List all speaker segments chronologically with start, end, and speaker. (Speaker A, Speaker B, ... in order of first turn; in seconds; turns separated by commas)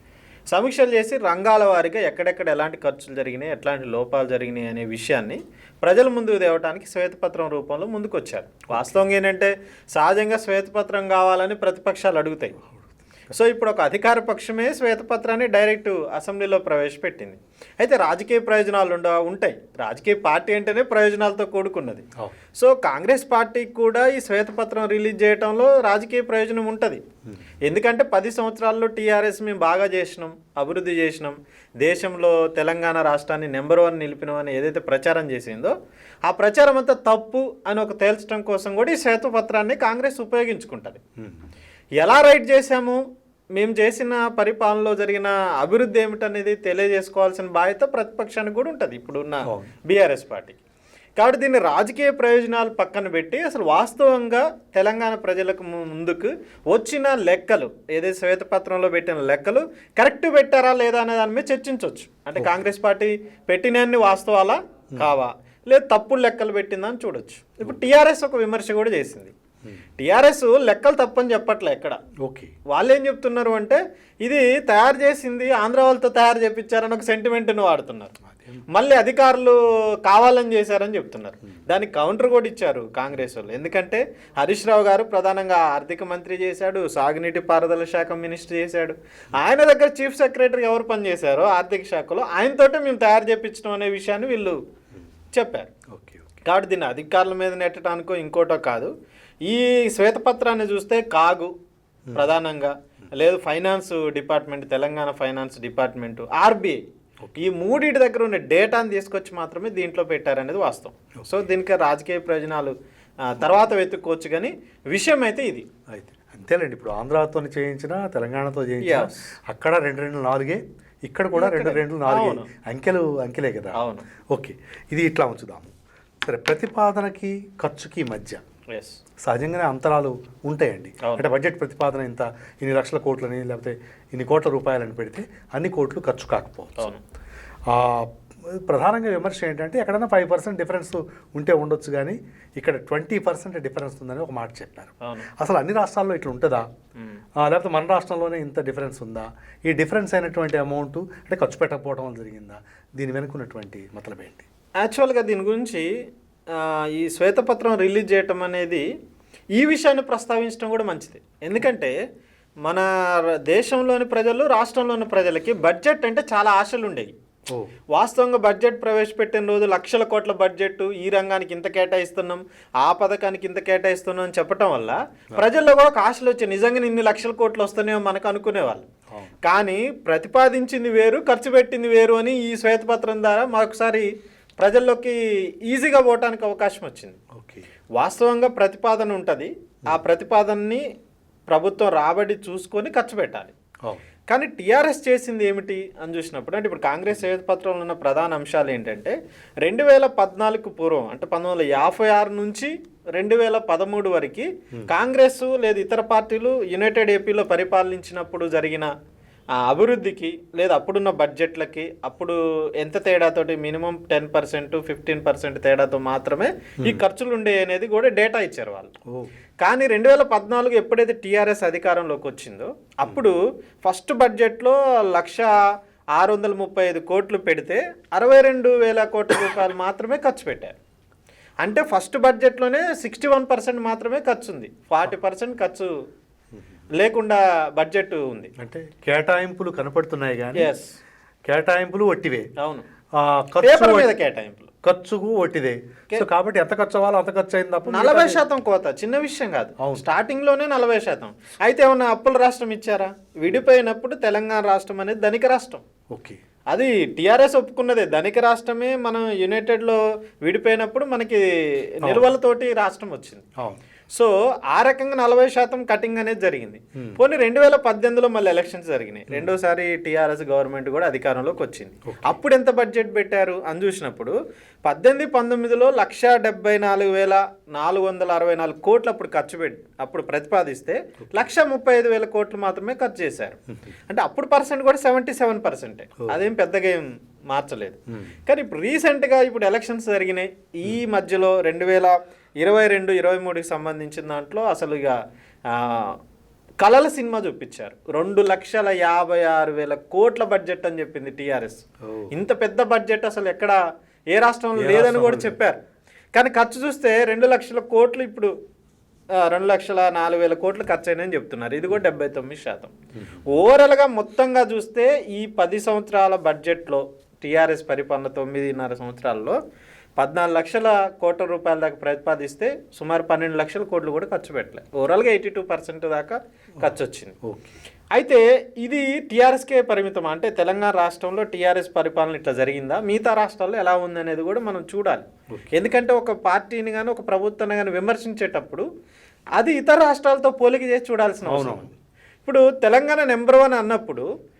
Speaker A: 0.5-12.6, Speaker B: 8.7-9.1, Speaker B: 12.7-13.3, Speaker A: 13.3-27.0, Speaker A: 27.6-35.7, Speaker A: 36.2-41.0, Speaker B: 41.2-41.5, Speaker A: 42.0-43.0, Speaker A: 43.5-50.6, Speaker B: 49.5-49.7, Speaker A: 51.2-69.3, Speaker B: 62.4-62.7, Speaker A: 70.0-72.0, Speaker B: 72.2-72.5, Speaker A: 72.7-78.2, Speaker B: 78.2-78.7, Speaker A: 78.7-94.6, Speaker A: 95.3-95.7, Speaker B: 95.9-96.4, Speaker A: 96.5-98.9, Speaker A: 99.5-101.5, Speaker A: 102.1-106.8, Speaker B: 107.2-107.5, Speaker A: 107.4-115.7, Speaker B: 111.2-111.5, Speaker B: 115.9-128.4, Speaker A: 118.8-119.3, Speaker A: 121.3-122.5, Speaker A: 123.8-124.0, Speaker A: 128.7-129.0, Speaker B: 129.2-136.9, Speaker A: 131.0-131.3, Speaker B: 137.7-146.7, Speaker A: 145.0-145.3, Speaker B: 147.4-154.5, Speaker A: 154.8-155.9, Speaker A: 156.5-158.9, Speaker A: 159.6-161.9, Speaker A: 162.6-167.1, Speaker A: 167.9-178.9, Speaker A: 179.4-187.2, Speaker B: 187.3-187.7, Speaker A: 188.0-190.8, Speaker A: 191.5-193.5, Speaker A: 194.3-208.9, Speaker A: 209.5-218.9, Speaker A: 219.6-230.8, Speaker A: 231.6-235.9, Speaker B: 236.5-236.8, Speaker A: 236.9-238.5, Speaker B: 238.6-240.7, Speaker A: 240.6-241.0, Speaker B: 241.4-242.5, Speaker A: 242.6-242.8, Speaker B: 243.1-244.1, Speaker A: 243.6-244.7, Speaker B: 244.8-248.5, Speaker A: 247.9-255.8, Speaker B: 249.8-250.1, Speaker B: 256.1-256.4, Speaker A: 256.7-263.5, Speaker B: 262.0-262.3, Speaker B: 263.6-263.8, Speaker A: 264.1-274.3, Speaker B: 272.1-272.4, Speaker A: 274.9-295.2, Speaker B: 283.7-283.9, Speaker B: 288.1-288.3, Speaker A: 295.7-296.2, Speaker A: 296.8-303.8, Speaker B: 302.0-302.3, Speaker A: 304.3-305.8, Speaker B: 304.8-305.6, Speaker A: 306.3-308.5, Speaker A: 309.4-312.9, Speaker B: 313.2-313.4, Speaker A: 313.5-319.6, Speaker A: 320.2-327.4, Speaker B: 326.8-327.8, Speaker A: 328.1-338.9, Speaker B: 335.5-335.8, Speaker A: 339.6-341.9, Speaker B: 341.5-342.0, Speaker A: 342.4-344.3